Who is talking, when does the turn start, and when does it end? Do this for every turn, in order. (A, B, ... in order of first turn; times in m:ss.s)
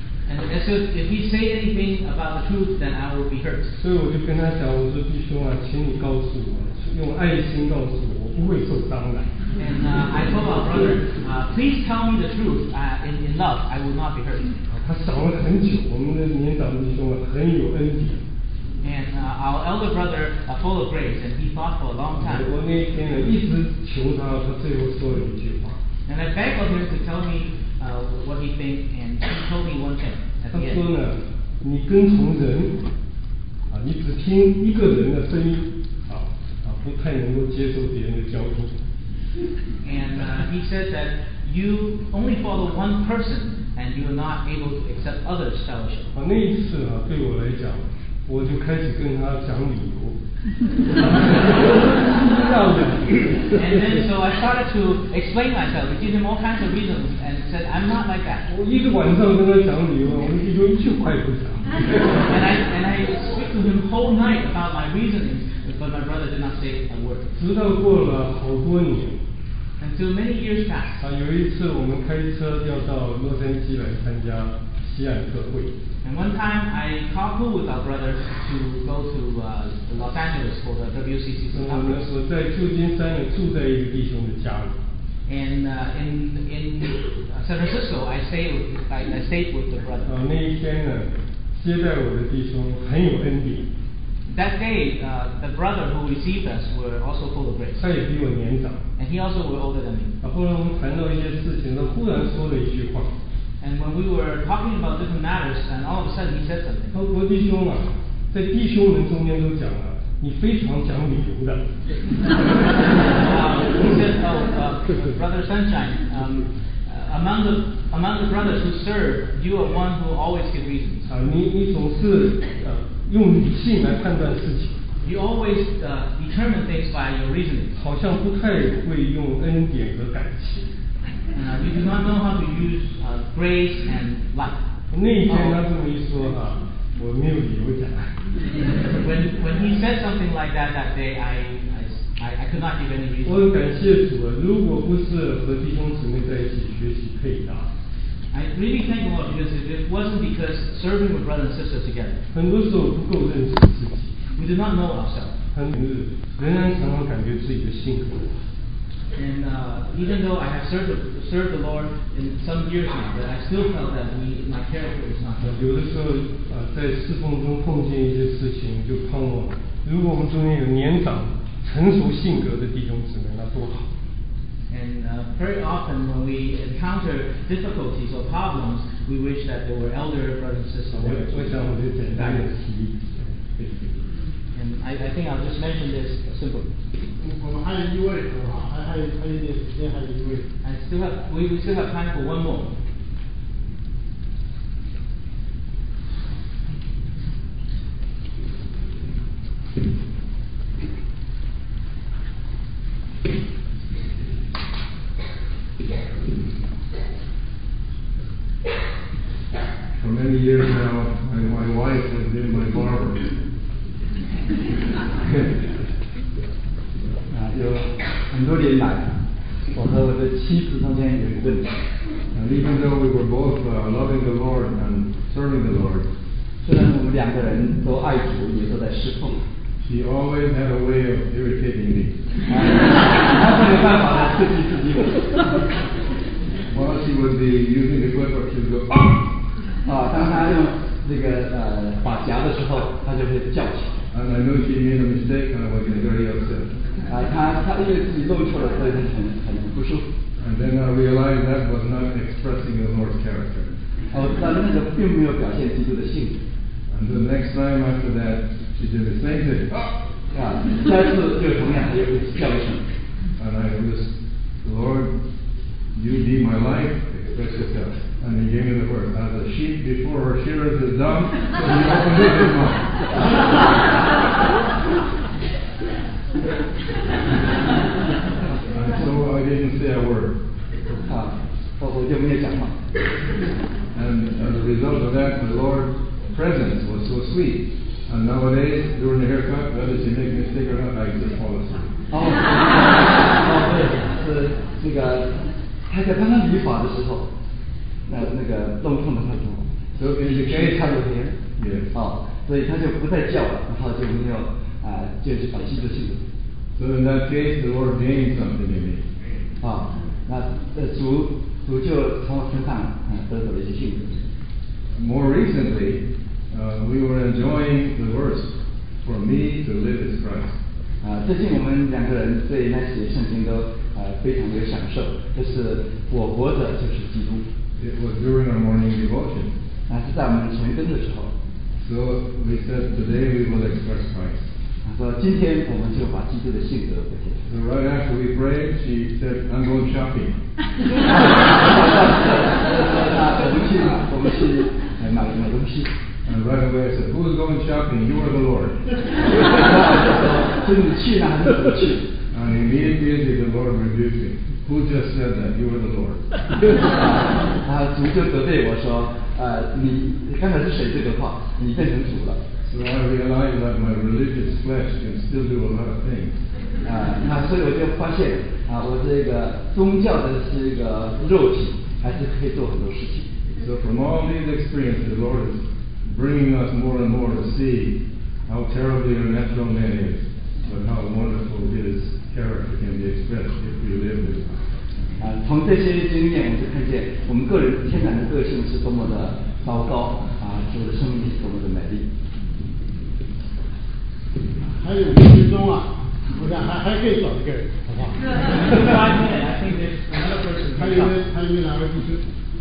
0:00.3-0:03.7 A
0:03.8-0:09.3 B
0:09.6-0:14.5 A
0:14.7-0:18.2 B
0:18.8-0:22.4 A
0:22.2-0:25.8 B
0:26.1-0:30.8 A
0:30.5-0:32.8 B
0:33.7-0:38.7 B
0:39.8-0:46.1 A
0:46.1-0:50.2 B
0:50.9-0:54.0 B
0:53.5-0:58.5 A
0:58.5-1:02.2 B
1:02.2-1:07.3 A
1:07.4-1:09.2 B
1:09.8-1:11.0 A
1:11.0-1:15.7 B
1:16.0-1:22.0 A
1:21.5-1:24.8 B
1:25.2-1:30.2 A
1:30.0-1:33.7 B
1:34.3-1:37.8 A
1:37.8-1:38.8 B
1:39.0-1:40.1 A
1:40.2-1:43.1 B
1:43.6-1:47.0 A
1:46.9-1:51.7 B
1:53.1-2:01.1 A
2:01.0-2:04.8 B
2:05.0-2:07.8 A
2:07.7-2:10.7 B
2:11.3-2:14.6 A
2:14.9-2:18.1 B
2:15.2-2:15.6 A
2:18.8-2:23.4 A
2:23.2-2:27.7 B
2:28.3-2:32.2 A
2:32.3-2:34.1 B
2:34.4-2:35.4 A
2:35.5-2:38.3 B
2:39.1-2:45.6 A
2:45.4-2:53.9 B
2:54.7-3:02.4 A
3:00.9-3:04.0 B
3:04.5-3:06.7 A
3:07.2-3:10.5 C
3:10.6-3:12.7 A
3:30.0-3:33.2 D
3:35.2-3:35.5 D
3:37.3-3:39.1 E
3:39.7-3:41.7 E
3:42.3-3:46.1 D
3:46.6-3:49.4 E
3:49.8-3:52.2 D
3:52.5-3:55.6 E
3:56.7-3:59.2 D
3:59.8-4:04.0 E
4:04.1-4:06.7 D
4:07.0-4:10.1 E
4:10.4-4:13.7 D
4:14.1-4:16.4 E
4:16.9-4:19.9 D
4:20.3-4:22.8 E
4:23.4-4:24.1 D
4:24.6-4:25.1 D
4:25.9-4:32.8 D
4:38.7-4:40.4 D
4:40.9-4:42.7 E
4:43.9-4:51.9 D
4:52.1-4:57.2 E
4:58.1-4:59.7 E
5:00.0-5:01.9 D
5:00.2-5:01.4 E
5:01.9-5:06.2 E
5:06.8-5:09.0 D
5:09.6-5:14.2 E
5:15.0-5:18.5 D
5:19.0-5:20.5 D
5:21.0-5:27.4 E
5:27.8-5:29.5 D
5:29.9-5:31.3 E
5:31.8-5:34.5 D
5:34.8-5:37.5 E
5:37.5-5:40.3 D
5:41.0-5:45.9 E
5:46.2-5:48.8 D
5:49.3-5:52.0 E
5:52.3-5:56.2 D
5:56.8-6:02.4 E
6:02.7-6:06.3 D
6:06.8-6:13.3 E
6:13.6-6:18.0 D
6:18.5-6:24.6 D
6:25.2-6:32.0 E
6:34.7-6:38.2 C
6:38.3-6:41.2 A
6:40.8-6:42.2 C